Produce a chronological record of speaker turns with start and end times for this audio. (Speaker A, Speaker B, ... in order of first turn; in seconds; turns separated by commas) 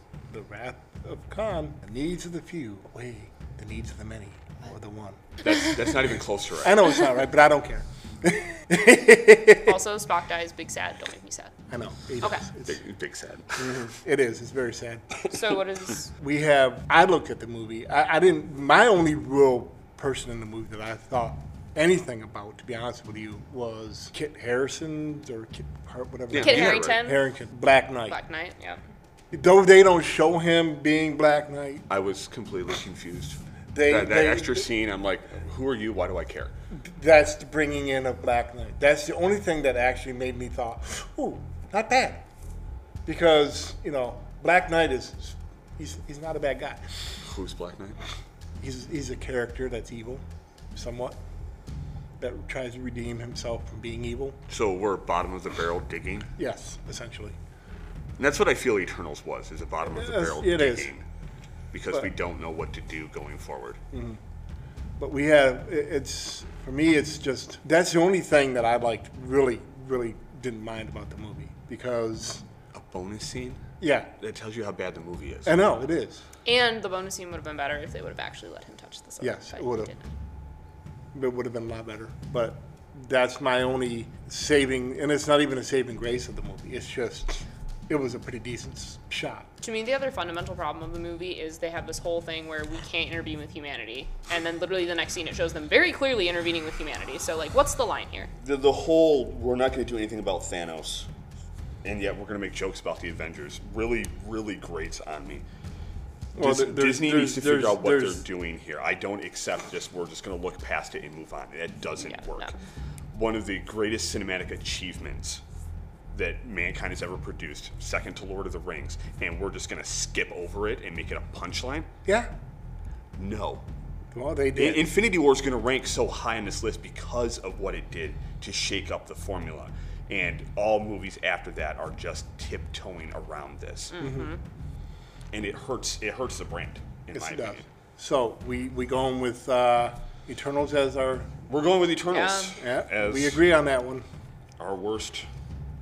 Speaker A: 0.3-5.4, Speaker B: 5.4-7.0, Speaker A: 6.6-9.8, Speaker C: 9.6-11.5, Speaker A: 11.7-12.8, Speaker B: 12.6-13.9, Speaker A: 13.6-15.2, Speaker C: 15.3-16.1, Speaker A: 16.2-28.2, Speaker B: 26.3-27.0, Speaker C: 26.4-27.2, Speaker C: 28.1-28.8, Speaker A: 29.3-31.9, Speaker B: 31.9-36.5, Speaker A: 33.7-34.6, Speaker A: 36.7-42.2, Speaker A: 43.1-47.0, Speaker B: 47.2-48.0, Speaker A: 48.6-51.2, Speaker A: 52.2-54.4, Speaker B: 54.5-56.3, Speaker A: 56.4-57.4, Speaker B: 58.2-61.0, Speaker A: 59.9-60.9, Speaker B: 61.7-63.8, Speaker A: 63.9-64.2, Speaker A: 65.0-72.4, Speaker B: 72.8-73.6, Speaker A: 73.8-74.1, Speaker B: 74.2-75.6, Speaker A: 75.4-76.2, Speaker C: 76.4-80.0, Speaker A: 79.2-79.9, Speaker A: 81.1-89.5, Speaker C: 89.6-98.3, Speaker B: 98.4-101.1, Speaker B: 101.8-105.4, Speaker A: 106.3-108.2, Speaker B: 106.4-112.5, Speaker C: 112.0-112.5, Speaker B: 113.1-115.4, Speaker B: 116.1-121.9, Speaker B: 123.2-123.6, Speaker A: 124.1-124.9, Speaker B: 124.5-134.0, Speaker C: 133.9-134.4, Speaker A: 134.0-134.3, Speaker B: 135.3-137.6, Speaker A: 137.1-141.3, Speaker B: 141.5-143.4, Speaker C: 142.1-142.6, Speaker A: 142.6-144.1, Speaker B: 144.6-145.2